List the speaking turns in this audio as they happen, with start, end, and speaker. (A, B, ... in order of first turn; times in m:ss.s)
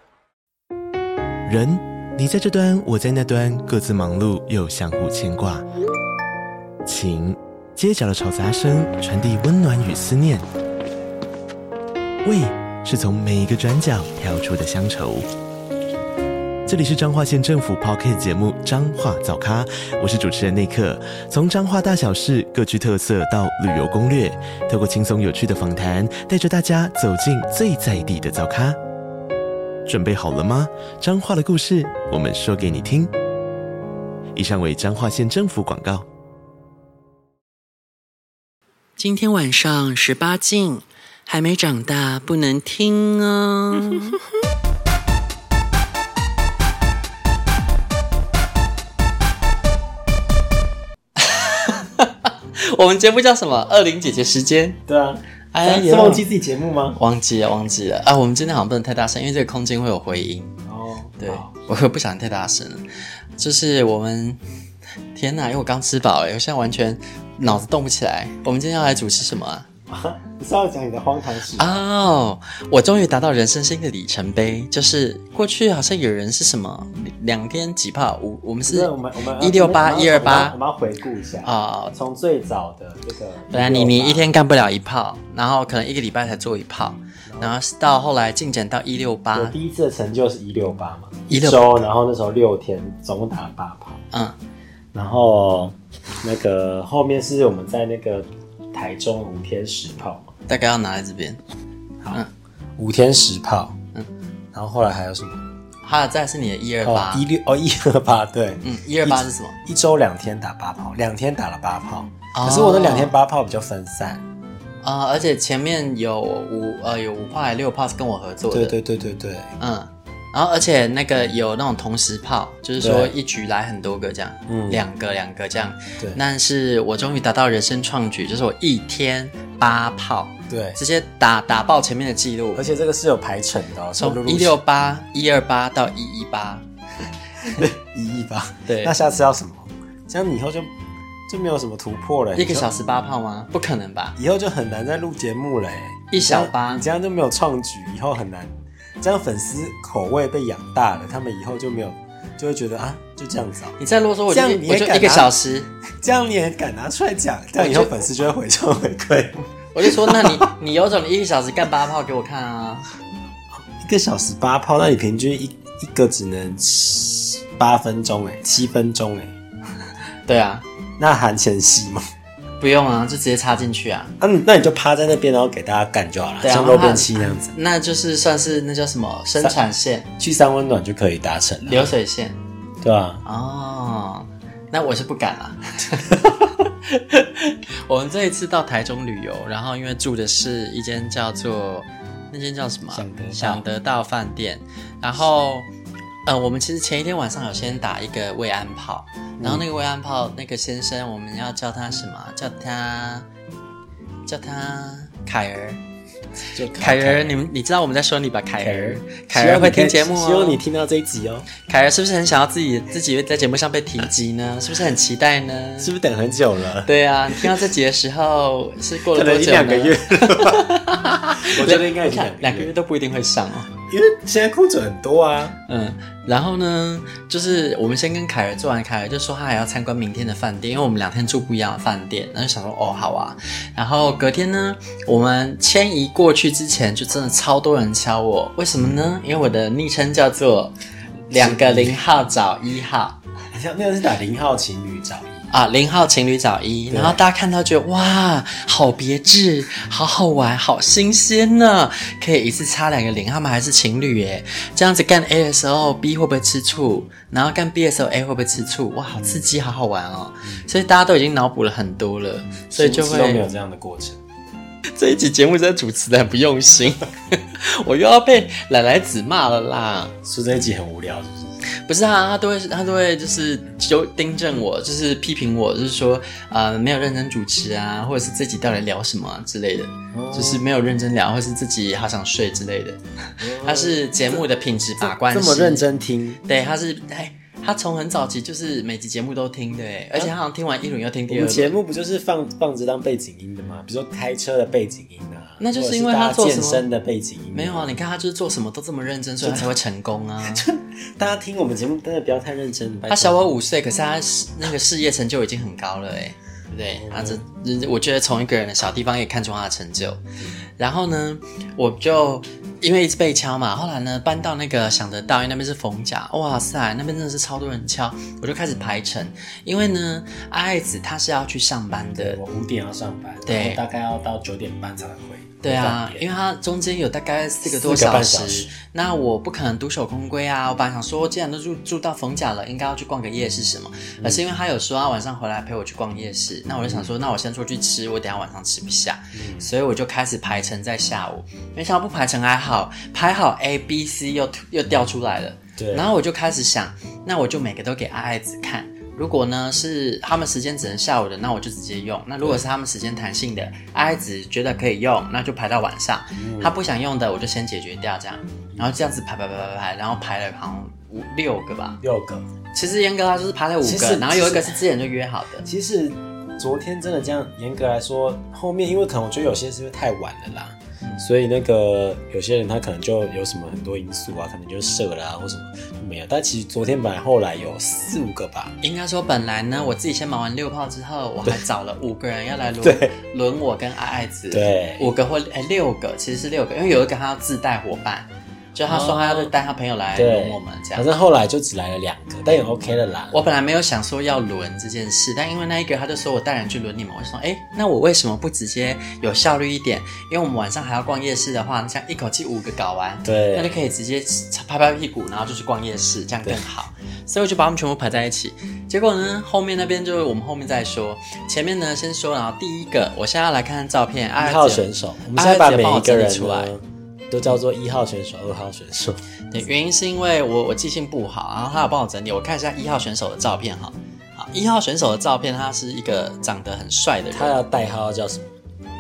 0:01.5-0:05.6 A
0:06.9-0:10.4 A
0:12.2-0:15.3 A
0:16.7-0:28.8 A
0:29.9-0:33.1 A
0:34.4-0:36.1 A
0:39.0-0:44.2 B
0:51.2-0:54.8 B
0:54.9-0:57.0 C
0:55.5-0:56.2 B
0:57.0-1:00.6 B
1:00.6-1:01.5 C
1:01.2-1:02.8 B
1:03.4-1:04.4 B
1:05.2-1:09.7 B
1:09.9-1:11.8 C
1:11.6-1:20.6 B
1:18.7-1:24.3 C
1:21.4-1:21.9 B
1:23.5-1:29.6 B
1:27.3-1:27.5 C
1:29.4-1:34.0 C
1:31.3-1:31.8 B
1:34.9-1:40.3 C
1:40.5-1:41.4 B
1:42.8-1:43.8 C
1:44.5-1:45.4 C
1:45.8-1:47.2 B
1:46.8-1:54.2 C
1:48.6-1:49.6 B
1:52.3-1:53.1 B
1:54.8-1:58.8 B
1:58.5-1:59.6 C
1:59.6-2:12.6 B
2:02.8-2:03.1 C
2:04.5-2:04.8 C
2:10.5-2:10.8 C
2:12.6-2:14.6 C
2:14.0-2:16.6 B
2:17.4-2:20.7 C
2:18.7-2:18.9 B
2:21.3-2:22.8 C
2:22.4-2:24.2 B
2:24.2-2:33.8 C
2:26.1-2:26.8 B
2:33.8-2:35.7 B
2:34.3-2:35.3 C
2:35.9-2:40.5 C
2:37.6-2:38.0 B
2:39.7-2:42.9 B
2:43.7-2:49.3 C
2:50.3-2:50.6 B
2:51.0-2:52.0 C
2:52.6-2:54.1 B
2:54.2-2:57.5 C
2:56.4-3:00.1 B
3:00.2-3:01.9 C
3:01.7-3:02.4 B
3:02.8-3:03.2 C
3:03.2-3:15.7 B
3:12.9-3:13.6 C
3:16.3-3:23.3 B
3:19.4-3:19.6 C
3:24.3-3:25.8 B
3:26.6-3:27.4 C
3:26.8-3:30.6 B
3:28.6-3:31.5 C
3:31.7-3:36.0 B
3:35.8-3:37.6 C
3:36.8-3:43.7 B
3:39.1-3:40.8 C
3:41.4-3:42.7 C
3:43.9-3:45.6 C
3:45.7-4:00.7 B
4:01.3-4:03.2 B
4:01.3-4:02.0 C
4:03.5-4:05.5 C
4:05.5-4:23.4 B
4:06.9-4:07.2 C
4:19.2-4:19.5 C
4:22.7-4:24.2 C
4:24.9-4:30.1 B
4:30.2-4:31.6 C
4:31.9-4:45.9 B
4:40.1-4:40.6 C
4:43.4-4:44.4 C
4:45.0-4:46.4 C
4:46.4-4:51.7 B
4:51.3-4:58.0 C
4:55.6-4:56.8 B
4:57.5-5:00.7 B
4:59.4-4:59.7 C
5:00.4-5:03.4 C
5:03.1-5:10.2 B
5:07.0-5:07.4 C
5:10.8-5:22.4 B
5:22.2-5:26.3 C
5:23.4-5:23.8 B
5:25.6-6:02.0 B
5:27.7-5:28.7 C
5:36.9-5:37.1 C
5:39.3-5:39.7 C
5:45.8-5:46.1 C
5:56.4-5:56.8 C
6:02.0-6:02.5 C
6:02.7-6:05.7 B
6:03.8-6:04.8 C
6:05.6-6:18.8 C
6:18.8-6:31.1 B
6:22.8-6:23.2 C
6:24.5-6:25.1 C
6:28.9-6:29.5 C
6:30.2-6:33.4 C
6:33.3-6:56.7 B
6:43.2-6:43.8 C
6:54.4-6:59.2 C
6:59.5-7:07.6 B
7:07.3-7:08.5 C